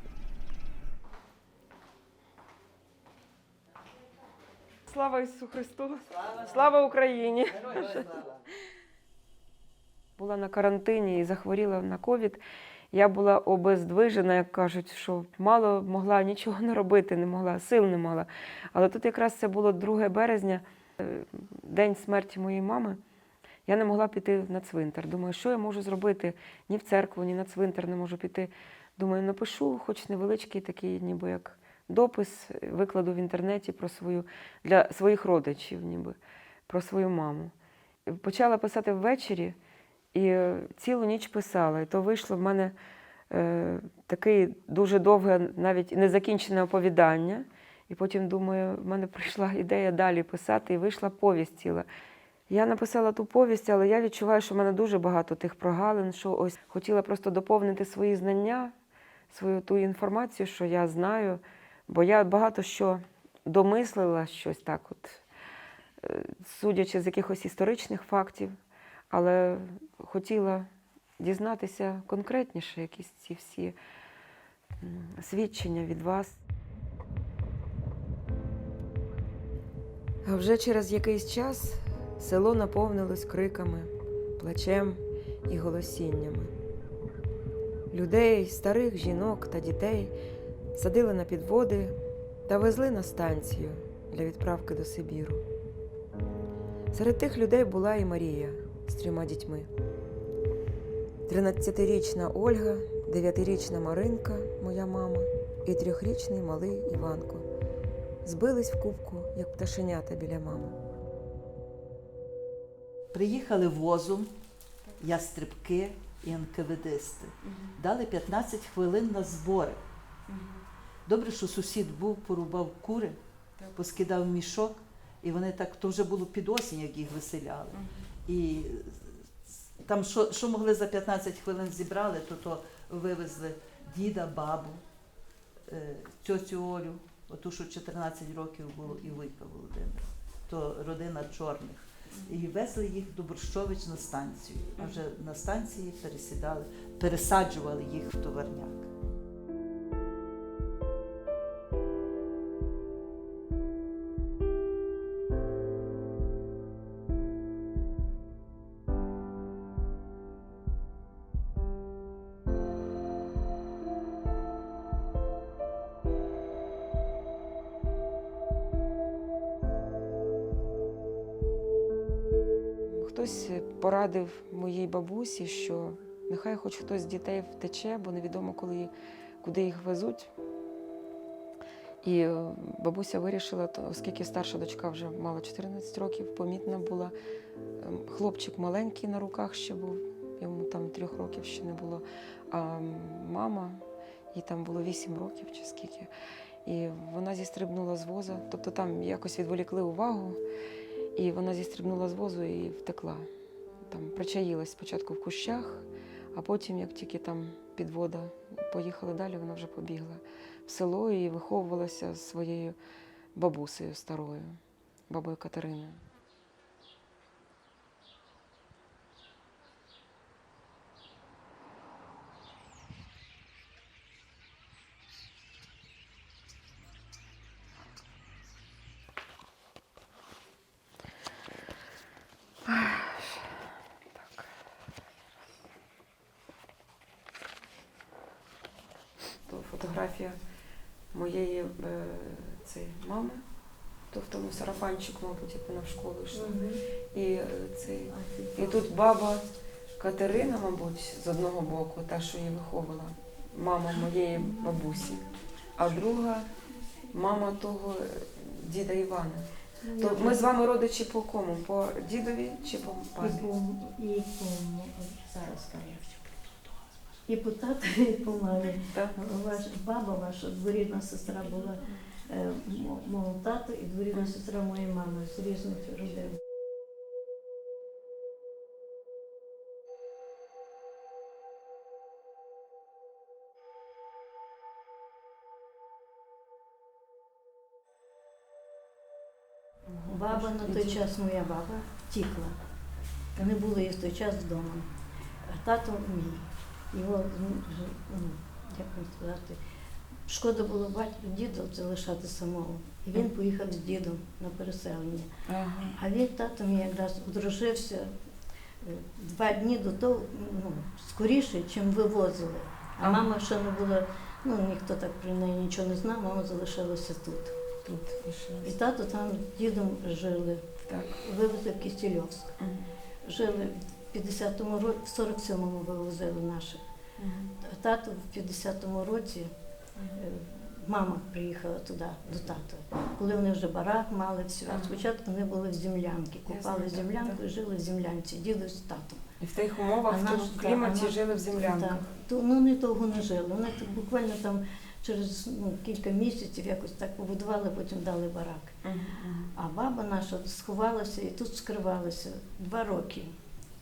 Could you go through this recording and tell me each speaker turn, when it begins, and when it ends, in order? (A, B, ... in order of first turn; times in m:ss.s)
0:04.9-0:08.2 A
0:07.8-0:08.3 B
0:10.2-0:23.0 A
0:23.6-0:37.5 A
0:38.1-0:39.6 A
0:40.1-0:42.8 A
0:43.3-0:51.9 A
0:52.5-0:58.8 A
0:59.3-1:05.2 A
1:06.0-1:08.6 A
1:09.1-1:13.8 A
1:14.8-1:16.4 A
1:20.2-1:26.5 A
1:27.9-1:30.1 A
1:30.8-1:35.4 A
1:36.9-1:39.7 A
1:41.3-1:47.5 A
1:48.2-1:50.8 A
1:53.1-1:54.3 B
1:55.0-1:59.8 B
1:57.4-1:57.7 A
2:00.3-2:00.6 A
2:01.0-2:03.2 B
2:03.8-2:14.8 B
2:07.7-2:08.0 A
2:15.7-2:28.9 B
2:53.0-2:58.9 A
2:59.4-3:00.3 A
3:02.0-3:07.1 A
3:07.8-3:16.1 A
3:16.6-3:20.4 A
3:21.1-3:23.3 A
3:23.9-3:32.8 A
3:33.4-3:36.0 A
3:52.6-3:53.6 A
3:59.5-4:00.4 A
4:01.1-4:03.4 A
4:04.1-4:06.5 A
4:06.3-4:06.8 C
4:07.1-4:09.4 A
4:08.1-4:08.9 C
4:10.0-4:15.2 A
4:15.8-4:16.5 A
4:17.1-4:23.5 A
4:19.8-4:20.5 C
4:23.2-4:26.1 C
4:27.3-4:36.4 C
4:28.9-4:29.2 A
4:49.9-4:51.0 A
4:50.1-4:52.6 C
4:53.4-4:54.9 C
4:55.5-4:59.6 C
5:00.3-5:05.3 C
5:05.5-5:06.0 A
5:05.9-5:08.1 C
5:08.8-5:17.6 C
5:13.0-5:13.2 A
5:17.8-5:18.7 A
5:18.6-5:20.6 C
5:20.9-5:21.2 A
5:21.2-5:22.6 C
5:22.6-5:22.9 A
5:23.2-5:26.8 C
5:27.2-5:27.5 A
5:27.6-5:29.5 C
5:30.1-5:39.2 C
5:34.7-5:35.0 A
5:36.5-5:37.4 A
5:39.4-5:42.1 A
5:40.0-5:48.8 C
5:48.8-5:49.5 A
5:49.5-5:53.4 C